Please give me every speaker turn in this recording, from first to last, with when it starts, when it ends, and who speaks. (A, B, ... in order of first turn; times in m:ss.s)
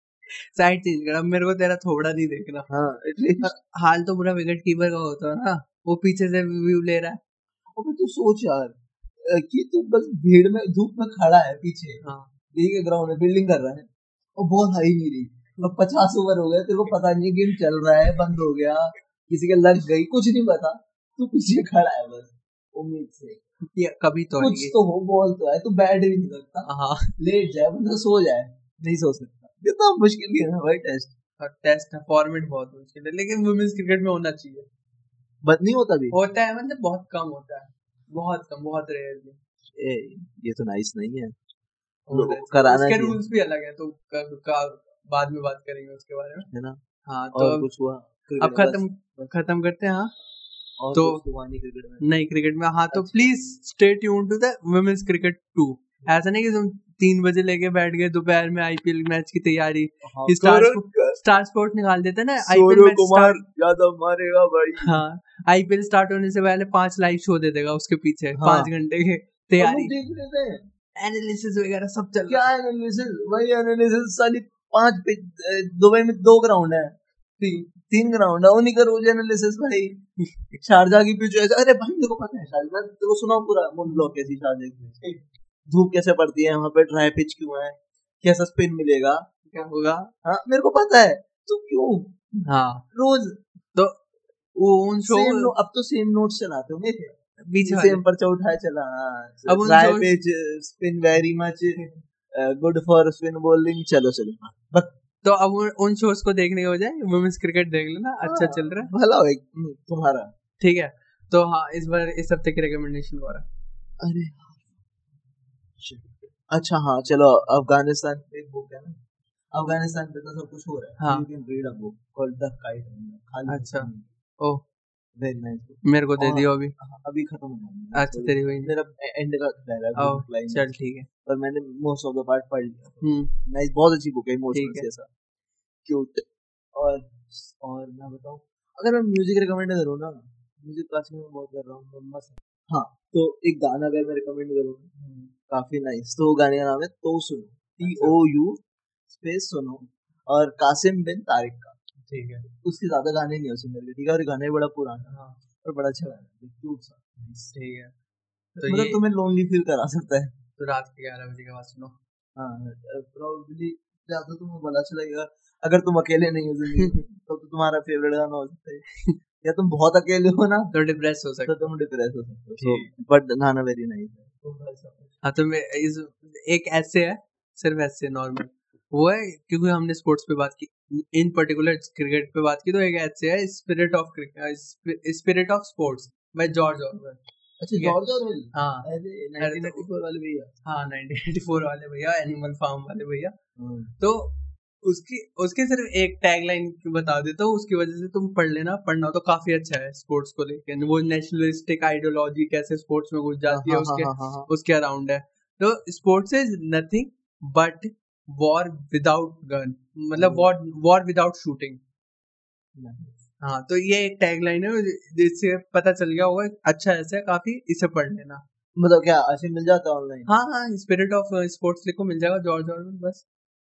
0:00.4-0:02.7 A
0:02.7-0:03.5 B
0:03.4-0:07.2 A
0:07.8-0:12.0 B
0:12.0-0:12.3 A
0:12.5-0:23.4 B
0:23.7-0:24.8 A
0:24.4-0:31.1 B
0:26.7-0:27.1 A
0:31.4-0:34.7 A
0:35.4-0:36.2 B
0:36.1-0:39.4 A
0:39.8-0:41.4 B
0:42.1-0:46.5 A
0:42.1-0:43.2 B
0:46.5-0:46.8 B
0:47.1-0:47.7 A
0:47.3-0:49.4 B
0:48.4-0:50.1 A
0:50.8-0:52.0 B
0:50.9-0:51.2 A
0:52.0-1:03.4 A
0:52.9-0:53.3 B
1:00.0-1:01.2 B
1:02.4-1:05.0 B
1:04.8-1:09.9 A
1:08.4-1:08.7 B
1:09.6-1:10.6 B
1:11.0-1:12.5 A
1:12.3-1:20.0 B
1:20.5-1:29.2 B
1:29.5-1:30.1 A
1:30.2-1:33.4 B
1:32.4-1:32.8 A
1:33.8-1:34.0 A
1:34.6-1:35.5 A
1:35.0-1:41.8 B
1:37.5-1:38.0 A
1:39.5-1:40.2 A
1:42.3-1:44.9 B
1:45.2-1:48.9 A
1:48.2-1:50.3 B
1:50.6-1:53.5 A
1:54.0-1:54.6 B
1:55.8-1:59.0 B
1:59.5-2:04.1 B
2:01.0-2:01.3 A
2:03.5-2:04.6 A
2:05.2-2:10.6 B
2:05.8-2:06.8 A
2:07.9-2:08.7 A
2:10.0-2:11.1 A
2:11.3-2:15.1 B
2:13.0-2:13.3 A
2:14.5-2:14.9 A
2:15.8-2:31.8 B
2:27.8-2:28.2 A
2:32.1-2:32.5 A
2:32.6-2:37.5 B
2:35.1-2:35.4 A
2:37.5-2:37.9 A
2:38.6-2:39.0 A
2:38.6-2:40.3 B
2:40.6-2:42.0 A
2:42.4-2:48.8 B
2:49.4-2:50.7 B
2:50.7-2:51.7 A
2:51.4-2:55.2 B
2:52.6-2:52.9 A
2:55.2-3:07.2 A
3:07.6-3:10.5 B
3:08.5-3:08.9 A
3:09.4-3:09.8 A
3:10.6-3:13.4 A
3:13.6-3:13.9 B
3:14.0-3:31.8 A
3:23.5-3:24.5 B
3:30.2-3:30.5 B
3:32.8-3:33.2 B
3:33.4-3:38.4 A
3:38.8-3:40.3 B
3:40.3-3:43.2 A